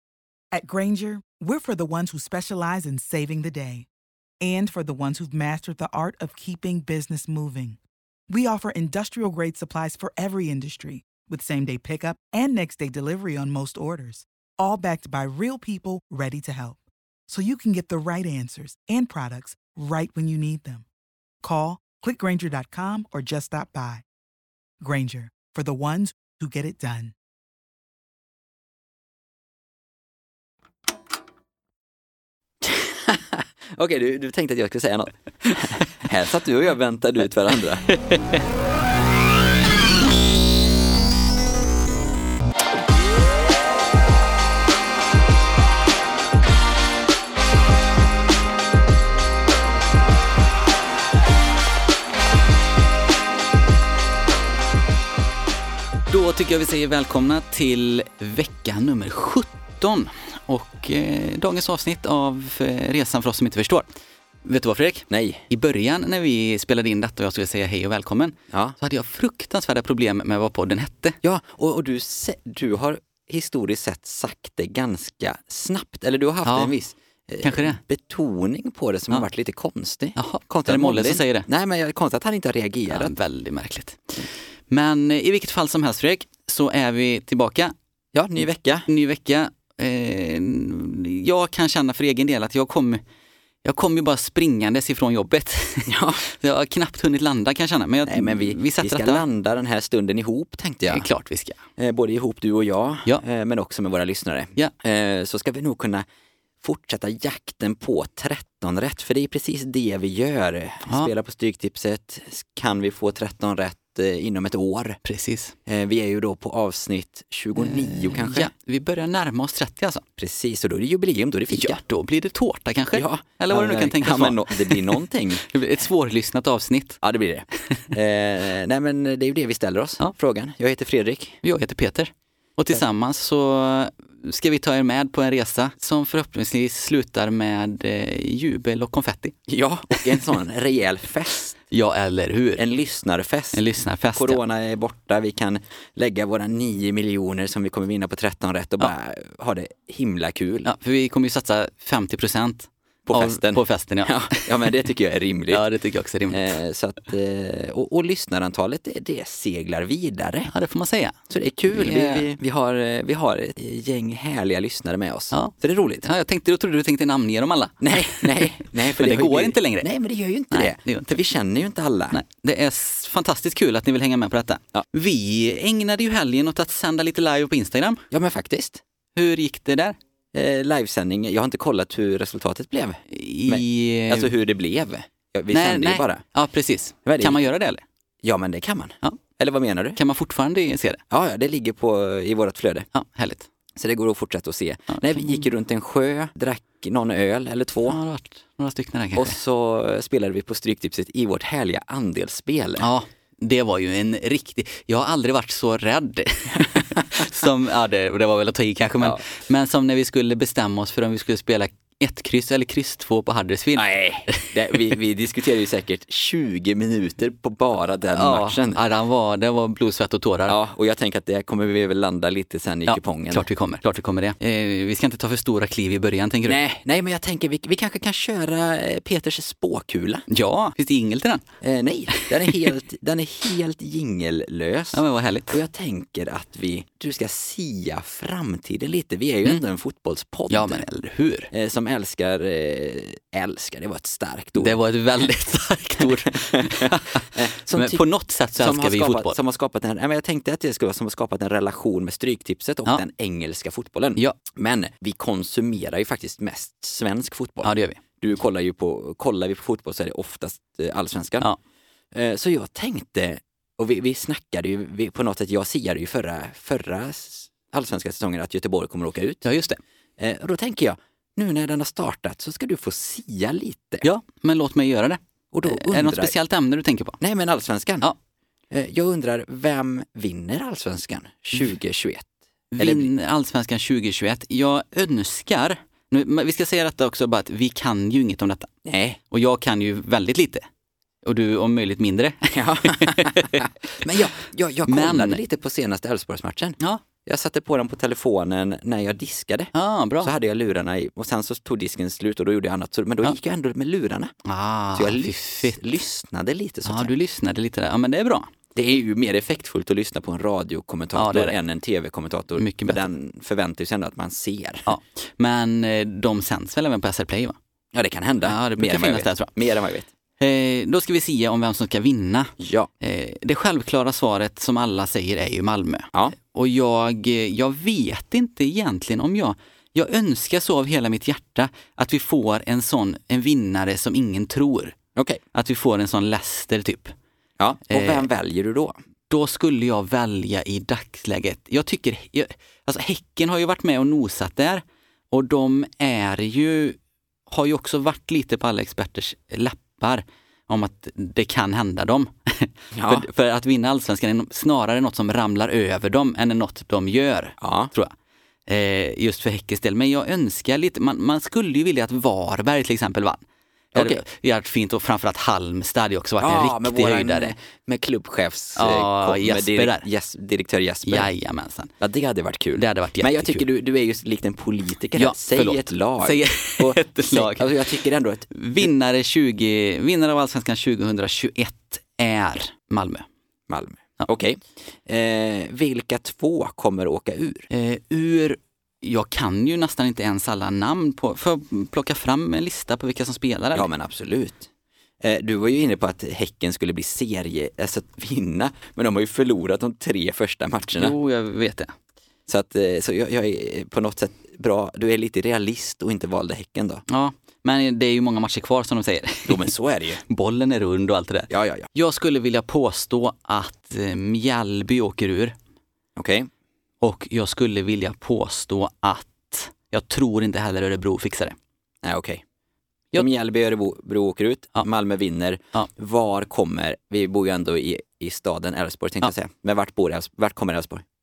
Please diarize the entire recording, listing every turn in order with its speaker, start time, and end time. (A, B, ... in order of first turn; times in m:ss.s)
0:00.5-0:03.9 A
0:04.4-0:20.8 A
0:21.4-0:24.0 A
0:24.8-0:27.1 A
0:32.6-0:37.8 B
0:37.9-0:38.3 C
0:56.1-1:03.9 C
1:04.4-1:11.2 C
1:05.1-1:05.4 B
1:11.2-1:23.1 B
1:16.4-1:16.7 C
1:17.4-1:17.8 C
1:20.2-1:21.5 C
1:22.9-1:27.7 C
1:28.1-1:28.9 B
1:28.9-1:33.0 C
1:33.6-1:39.2 C
1:35.9-1:36.2 B
1:38.1-1:41.1 B
1:40.9-1:41.6 C
1:41.8-1:46.0 B
1:46.6-1:55.0 B
1:55.0-1:55.5 C
1:55.7-1:58.5 B
1:57.6-2:00.0 C
2:00.2-2:01.8 B
2:01.5-2:07.0 C
2:03.0-2:05.4 B
2:07.0-2:11.4 B
2:11.4-2:19.4 C
2:19.5-2:21.6 B
2:21.7-2:22.6 C
2:22.6-2:23.6 B
2:23.5-2:24.4 C
2:24.1-2:30.7 B
2:30.6-2:34.3 C
2:33.1-2:35.6 B
2:35.5-2:36.5 C
2:36.3-2:40.5 B
2:40.5-2:41.1 C
2:41.3-2:46.0 B
2:41.7-2:42.3 C
2:45.3-2:49.9 C
2:47.8-2:52.2 B
2:50.5-2:51.1 C
2:52.1-2:58.0 C
2:58.1-2:58.8 B
2:59.2-3:00.0 C
3:00.3-3:06.2 B
3:03.1-3:04.3 C
3:05.5-3:07.8 C
3:07.1-3:07.4 B
3:08.2-3:10.0 B
3:10.0-3:11.0 C
3:11.1-3:12.9 B
3:12.9-3:13.5 C
3:13.8-3:18.0 B
3:14.9-3:15.5 C
3:17.8-3:19.4 C
3:19.2-3:22.8 B
3:22.8-3:34.5 C
3:26.6-3:27.2 B
3:33.8-3:38.8 B
3:38.1-3:40.6 C
3:40.5-3:43.5 B
3:42.9-3:46.6 C
3:46.5-3:50.2 B
3:50.3-3:51.4 C
3:51.6-4:00.8 B
3:54.9-3:55.6 C
4:00.5-4:01.5 C
4:01.5-4:04.8 B
4:04.6-4:09.4 C
4:06.4-4:08.0 B
4:08.6-4:21.5 B
4:17.6-4:18.0 C
4:22.1-4:29.4 B
4:29.4-4:29.8 C
4:30.2-4:34.1 B
4:34.0-4:37.2 C
4:35.5-4:36.3 B
4:37.2-4:38.1 B
4:38.7-4:42.2 B
4:42.7-4:48.7 C
4:42.8-4:43.1 B
4:48.8-4:49.2 B
4:49.3-4:50.6 C
4:51.2-4:53.6 C
4:52.5-5:04.3 B
4:54.9-4:55.4 C
4:59.8-5:00.3 C
5:04.4-5:05.8 C
5:04.9-5:07.1 B
5:06.8-5:08.5 C
5:08.8-5:14.8 B
5:11.1-5:11.6 C
5:12.6-5:13.0 C
5:14.9-5:17.6 C
5:17.9-5:20.1 B
5:18.5-5:19.5 C
5:20.4-5:34.9 C
5:22.6-5:22.9 B
5:35.2-5:35.4 B
5:35.6-5:37.1 C
5:37.6-5:38.9 B
5:37.9-5:38.3 C
5:39.3-5:47.0 C
5:47.5-5:58.1 C
5:52.9-5:53.2 B
5:57.6-5:57.9 B
5:58.7-6:03.4 C
6:03.9-6:07.5 C
6:03.9-6:04.2 B
6:06.4-6:11.3 B
6:08.8-6:10.1 C
6:11.1-6:11.9 C
6:12.0-6:18.9 B
6:12.8-6:13.6 C
6:15.2-6:18.0 C
6:18.5-6:23.2 C
6:23.7-6:27.7 B
6:27.7-6:33.9 C
6:33.8-6:34.7 B
6:35.2-6:41.1 B
6:41.0-6:41.9 C
6:42.5-6:47.0 B
6:47.1-6:49.6 C
6:49.5-6:50.2 B
6:50.3-6:55.6 C
6:51.5-6:51.9 B
6:56.2-6:56.5 B
6:57.0-7:01.6 C
7:02.0-7:02.4 B
7:03.1-7:11.0 B